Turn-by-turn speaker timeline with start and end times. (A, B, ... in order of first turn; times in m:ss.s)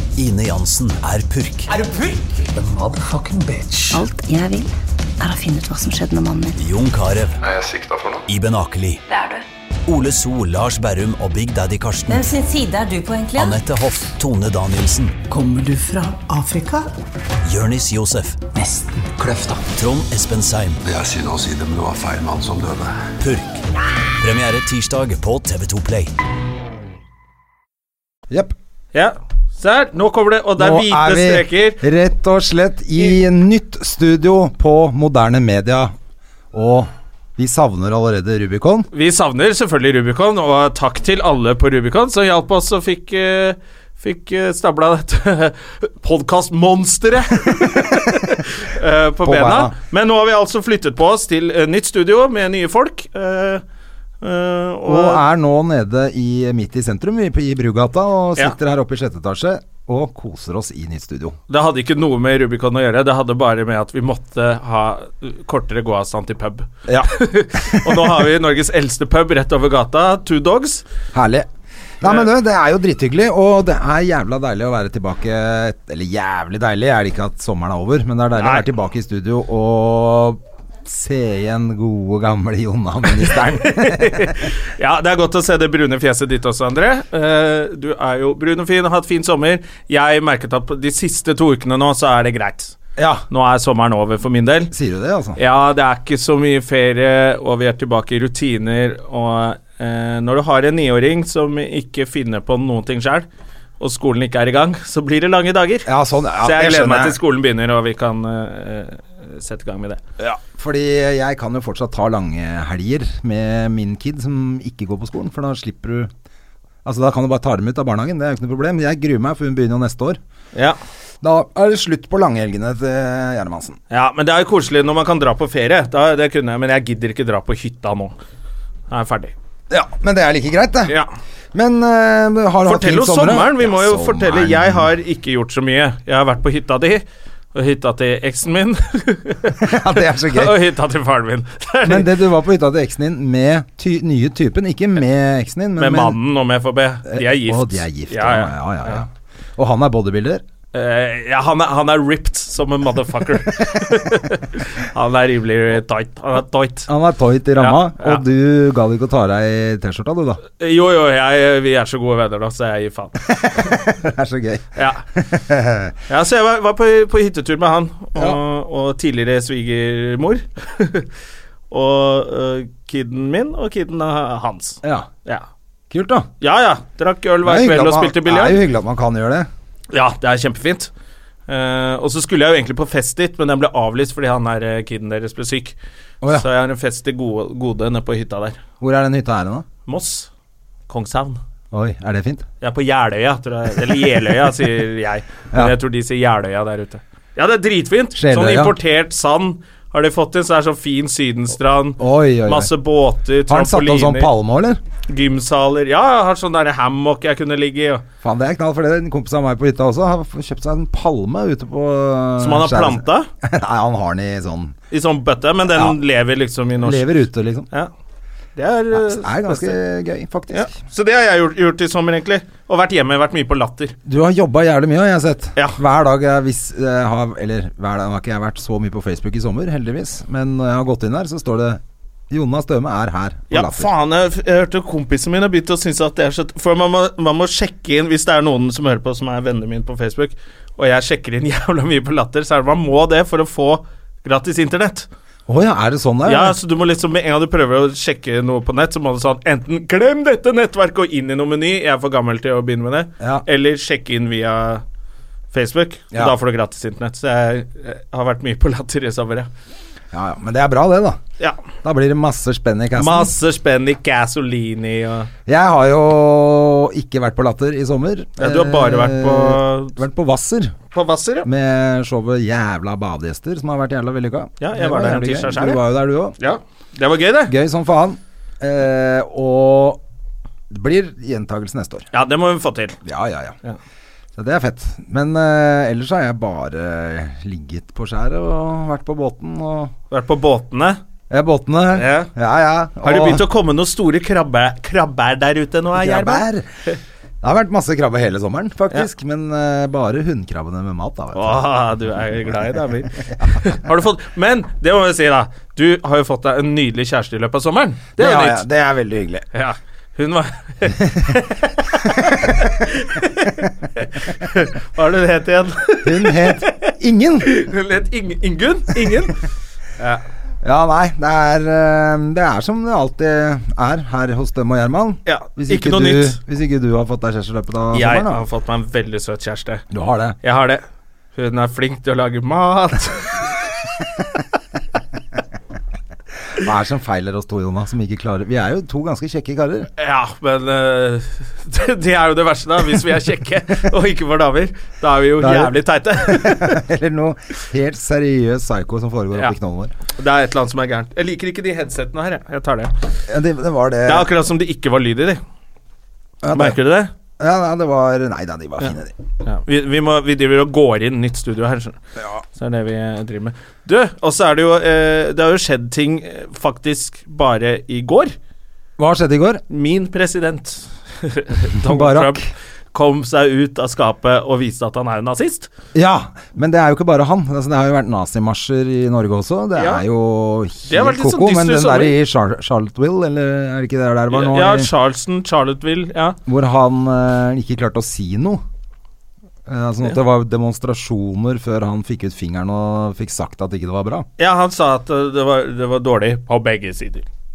0:00.2-0:01.7 A
0:01.8-0:02.4 B
0:02.5-0:04.0 C
0:03.9-0:06.6 D
0:06.6-0:07.4 A
0:07.4-0:08.2 E
0:08.3-0:09.0 A
0:09.1-0:09.4 B
0:09.9-0:12.2 A
0:12.1-0:13.6 B
0:13.4-0:15.2 A
0:15.3-0:16.8 C
0:17.4-0:18.5 A
0:18.6-0:19.6 C
0:19.6-0:20.8 A
0:20.8-0:23.0 E
0:23.2-0:23.6 A
0:24.2-0:26.1 A
0:28.3-0:28.6 F
0:28.9-0:31.8 G
0:30.6-0:35.9 F
0:36.5-0:38.9 F
0:38.9-0:53.6 G
0:49.2-0:49.7 F
0:54.2-0:55.2 G
0:54.9-1:01.4 F
1:01.5-1:10.8 G
1:06.9-1:08.2 F
1:11.1-1:11.5 F
1:12.0-1:24.4 F
1:18.4-1:18.7 G
1:23.4-1:32.8 G
1:33.0-1:33.2 F
1:33.3-1:34.7 G
1:34.7-1:35.4 F
1:35.4-1:43.3 G
1:43.8-1:45.9 G
1:45.8-1:47.2 F
1:46.4-1:50.0 G
1:50.2-1:56.1 F
1:56.8-2:00.2 F
2:01.2-2:03.8 F
2:03.9-2:08.1 G
2:08.9-2:09.3 G
2:09.7-2:11.0 F
2:11.5-2:14.9 F
2:12.6-2:22.1 G
2:19.6-2:20.6 F
2:21.8-2:26.2 F
2:25.8-2:29.0 G
2:27.1-2:30.4 F
2:30.7-2:36.9 G
2:36.9-2:40.4 F
2:37.6-2:38.2 G
2:40.6-2:43.8 G
2:43.3-2:45.9 F
2:44.8-2:45.0 G
2:46.1-2:51.1 G
2:51.7-2:55.4 G
2:54.8-2:55.1 F
2:55.9-2:56.3 F
2:56.4-2:58.6 G
2:57.4-2:59.5 F
2:59.9-3:00.9 G
3:01.5-3:05.8 G
3:06.2-3:06.5 F
3:06.3-3:08.6 G
3:08.8-3:09.7 F
3:09.9-3:10.3 G
3:10.9-3:11.4 G
3:11.7-3:12.5 F
3:12.6-3:24.3 G
3:18.1-3:18.8 F
3:22.0-3:22.7 F
3:23.5-3:24.8 F
3:25.1-3:28.0 G
3:28.2-3:34.8 F
3:32.4-3:33.3 G
3:34.9-3:37.1 G
3:35.6-3:36.0 F
3:36.8-3:37.7 F
3:38.6-3:39.8 G
3:38.9-3:40.7 F
3:40.5-3:44.0 G
3:44.0-3:53.9 F
3:53.5-4:05.1 G
4:05.5-4:06.6 F
4:06.2-4:14.8 G
4:15.5-4:19.5 G
4:20.1-4:21.2 F
4:21.8-4:23.3 F
4:23.0-4:25.3 G
4:25.5-4:30.8 F
4:28.4-4:30.0 G
4:30.9-4:31.5 G
4:31.4-4:36.4 F
4:34.6-4:35.8 G
4:36.4-4:37.6 G
4:37.4-4:40.0 F
4:40.7-4:42.1 F
4:42.1-4:43.0 G
4:43.0-4:43.6 F
4:44.4-4:49.9 F
4:50.1-4:51.0 G
4:51.3-4:53.4 F
4:51.9-4:52.3 G
4:53.0-4:56.9 G
4:56.0-4:56.7 F
4:57.4-5:01.6 F
5:01.3-5:08.6 G
5:08.2-5:09.4 F
5:09.5-5:19.4 G
5:12.2-5:12.5 F
5:16.0-5:17.5 F
5:20.6-5:28.4 F
5:25.2-5:26.4 G
5:27.9-5:29.8 G
5:29.9-5:30.4 F
5:30.4-5:30.8 G
5:31.3-5:34.4 G
5:36.6-5:39.9 F
5:40.0-5:46.8 G
5:45.4-5:49.9 F
5:50.2-5:52.9 G
5:53.3-5:54.3 F
5:54.1-5:55.4 G
5:56.4-5:56.8 F
5:56.5-5:57.1 G
5:57.4-5:59.1 F
5:58.8-6:02.0 G
6:02.6-6:08.3 G
6:09.0-6:09.6 F
6:09.7-6:15.7 G
6:11.8-6:12.5 F
6:15.9-6:24.9 F
6:19.8-6:20.0 G
6:20.9-6:22.2 G
6:24.3-6:26.4 G
6:26.5-6:28.6 F
6:29.6-6:34.2 F
6:34.4-6:37.2 G